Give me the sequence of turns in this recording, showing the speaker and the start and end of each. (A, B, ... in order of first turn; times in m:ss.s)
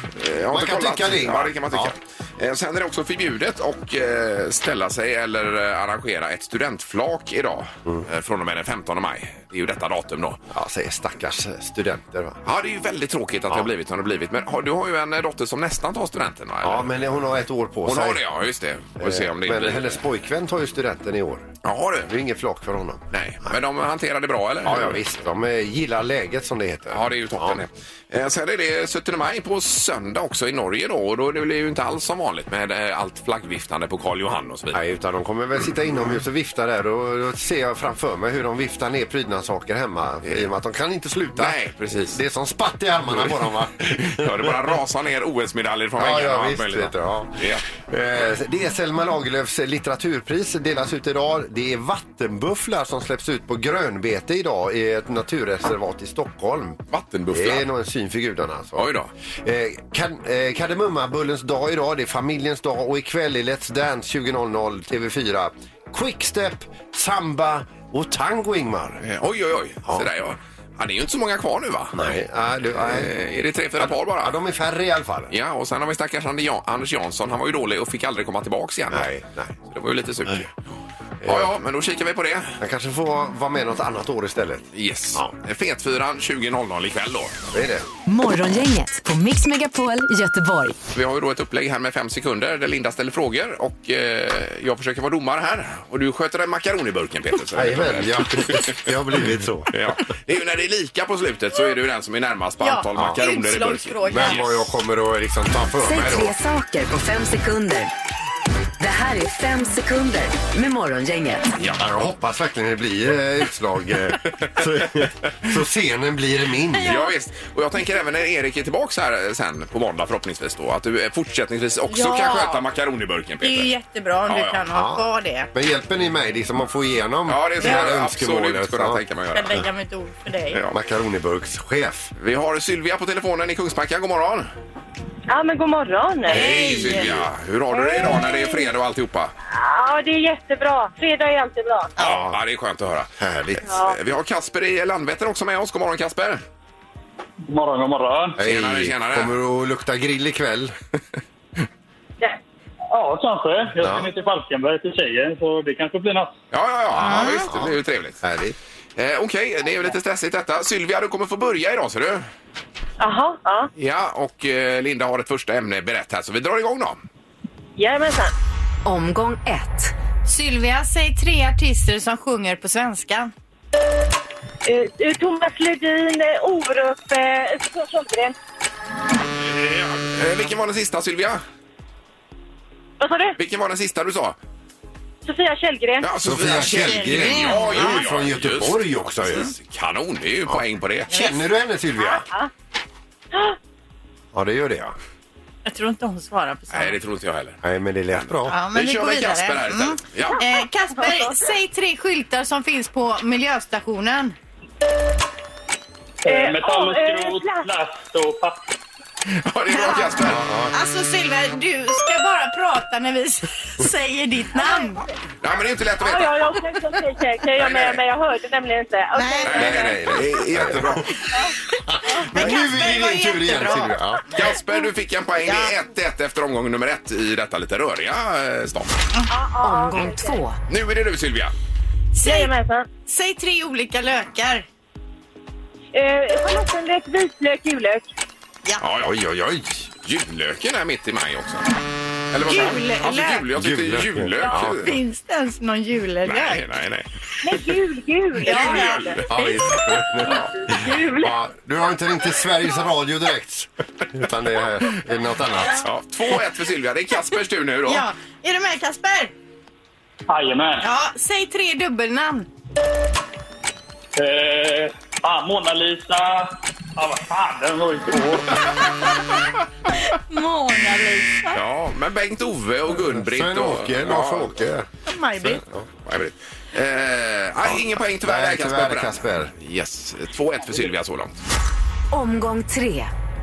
0:00.2-0:10.4 A
0:00.5-0:01.9 B
0:10.5-0:12.4 B
0:12.4-0:16.9 A
0:16.6-0:18.2 B
0:17.8-0:20.0 A
0:19.0-0:21.5 B
0:21.6-0:22.1 A
0:22.1-0:23.0 B
0:23.1-0:25.0 A
0:24.6-0:27.6 B
0:26.9-0:34.8 A
0:34.7-0:44.7 B
0:41.4-0:42.2 A
0:44.0-0:47.6 A
0:46.0-0:56.8 B
0:56.9-0:57.6 A
0:57.3-1:09.0 B
0:58.8-0:59.1 A
1:09.0-1:12.2 A
1:11.9-1:13.1 B
1:12.7-1:14.4 A
1:13.8-1:15.3 B
1:15.3-1:19.1 A
1:18.9-1:19.5 B
1:19.7-1:20.5 A
1:21.2-1:21.5 B
1:21.2-1:22.5 A
1:22.6-1:25.3 B
1:24.7-1:27.4 A
1:27.5-1:27.8 B
1:28.1-1:30.8 C
1:30.9-1:38.8 A
1:37.5-1:39.7 B
1:39.7-1:44.6 A
1:42.6-1:44.4 D
1:44.1-1:46.3 B
1:45.8-1:47.9 C
1:48.8-1:51.5 C
1:51.6-1:52.0 A
1:51.8-1:57.0 B
1:54.4-1:55.1 A
1:56.8-1:57.1 D
1:56.8-2:03.7 A
2:01.9-2:02.6 D
2:03.4-2:05.5 D
2:04.2-2:04.6 A
2:04.7-2:09.0 B
2:07.3-2:09.6 A
2:09.3-2:10.6 D
2:10.5-2:10.8 A
2:10.7-2:12.1 B
2:12.2-2:14.5 A
2:15.3-2:16.5 E
2:16.3-2:19.3 A
2:16.3-2:17.1 D
2:16.4-2:17.3 B
2:17.7-2:18.7 E
2:19.5-2:21.9 E
2:22.0-2:22.4 B
2:22.0-2:26.4 A
2:23.2-2:23.6 B
2:23.6-2:24.0 E
2:27.4-2:28.4 F
2:28.4-2:30.7 B
2:28.4-2:29.3 A
2:32.9-2:36.3 F
2:33.8-2:34.1 B
2:36.5-2:38.2 A
2:37.0-2:37.5 D
2:37.0-2:38.6 B
2:39.0-2:42.3 A
2:43.0-2:43.7 E
2:43.8-2:47.0 A
2:47.8-2:48.3 E
2:48.8-2:49.9 C
2:50.2-2:53.3 D
2:54.6-2:58.4 E
2:59.4-3:01.4 A
3:03.0-3:03.4 E
3:03.4-3:04.4 A
3:05.2-3:06.1 E
3:06.0-3:11.3 A
3:06.2-3:09.5 B
3:06.5-3:08.1 D
3:11.1-3:11.3 D
3:11.1-3:12.2 B
3:12.0-3:12.5 E
3:14.3-3:14.9 B
3:15.6-3:17.0 D
3:16.7-3:17.6 A
3:17.6-3:18.6 B
3:18.1-3:20.4 A
3:18.5-3:24.4 D
3:20.3-3:21.4 E
3:26.2-3:28.7 F
3:26.2-3:27.7 E
3:29.3-3:30.4 A
3:29.7-3:30.2 D
3:30.2-3:30.7 B
3:30.7-3:35.0 D
3:34.6-3:34.9 E
3:35.4-3:36.4 A
3:36.0-3:40.0 E
3:37.5-3:38.0 A
3:39.1-3:39.8 D
3:39.4-3:41.1 A
3:39.5-3:41.1 B
3:41.9-3:44.4 B
3:42.3-3:43.9 D
3:44.3-3:49.0 A
3:45.4-3:45.7 D
3:49.3-3:50.4 E
3:49.6-3:50.6 C
3:50.7-3:51.5 A
3:52.1-3:52.5 D
3:52.2-3:52.9 E
3:53.0-3:54.6 D
3:55.9-3:58.1 E
3:58.8-3:59.2 A
3:59.0-3:59.9 B
4:00.0-4:01.6 A
4:02.3-4:05.0 A
4:02.4-4:03.4 D
4:03.5-4:04.8 B
4:04.6-4:06.6 D
4:06.2-4:07.7 A
4:07.4-4:11.4 E
4:08.4-4:09.3 A
4:08.4-4:09.2 D
4:09.3-4:15.8 B
4:15.8-4:18.0 A
4:17.9-4:19.3 D
4:20.3-4:20.9 F
4:20.8-4:22.5 D
4:24.2-4:28.7 F
4:30.1-4:31.6 D
4:31.5-4:34.6 A
4:32.9-4:34.9 B
4:35.0-4:35.6 D
4:35.4-4:35.9 B
4:36.0-4:41.3 A
4:37.6-4:39.5 B
4:42.1-4:43.1 C